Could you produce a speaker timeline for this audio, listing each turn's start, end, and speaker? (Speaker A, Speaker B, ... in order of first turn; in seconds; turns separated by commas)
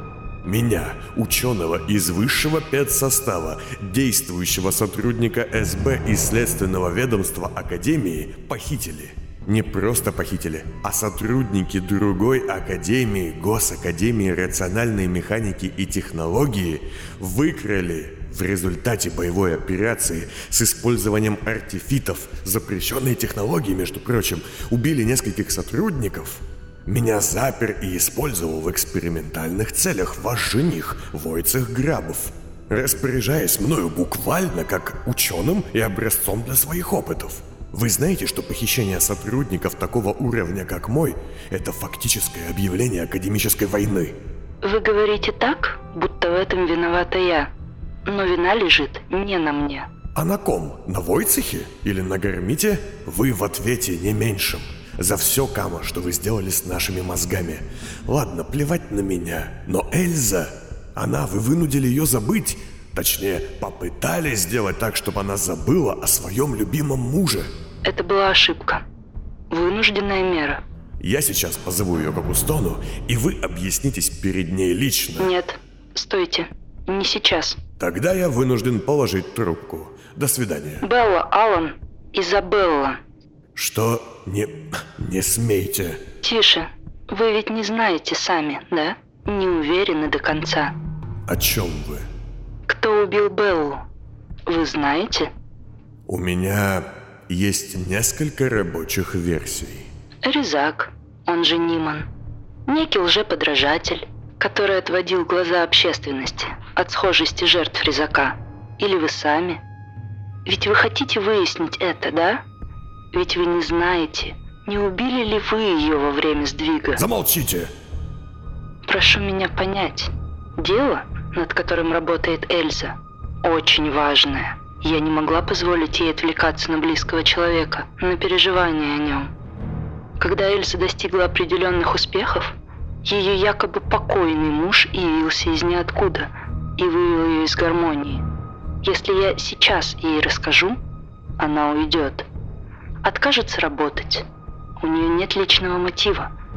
Speaker A: 0.4-44.2, Speaker B: 44.6-47.5, Speaker B: 48.1-49.9, Speaker A: 50.1-67.5, Speaker B: 67.8-68.8, Speaker B: 69.5-70.6, Speaker A: 71.0-75.3, Speaker B: 75.2-77.6, Speaker A: 77.8-80.8, Speaker B: 80.8-83.0, Speaker A: 83.5-86.0, Speaker B: 86.2-90.8, Speaker A: 91.3-92.1, Speaker B: 92.7-93.8, Speaker B: 94.5-95.3, Speaker A: 96.1-99.9, Speaker B: 100.2-102.1, Speaker B: 102.7-109.6, Speaker B: 110.5-112.4, Speaker B: 113.1-117.0, Speaker A: 117.0-117.7, Speaker B: 118.9-129.3, Speaker B: 130.2-138.2, Speaker B: 138.8-140.8, Speaker B: 141.4-142.3, Speaker B: 143.0-144.3, Speaker B: 144.8-146.3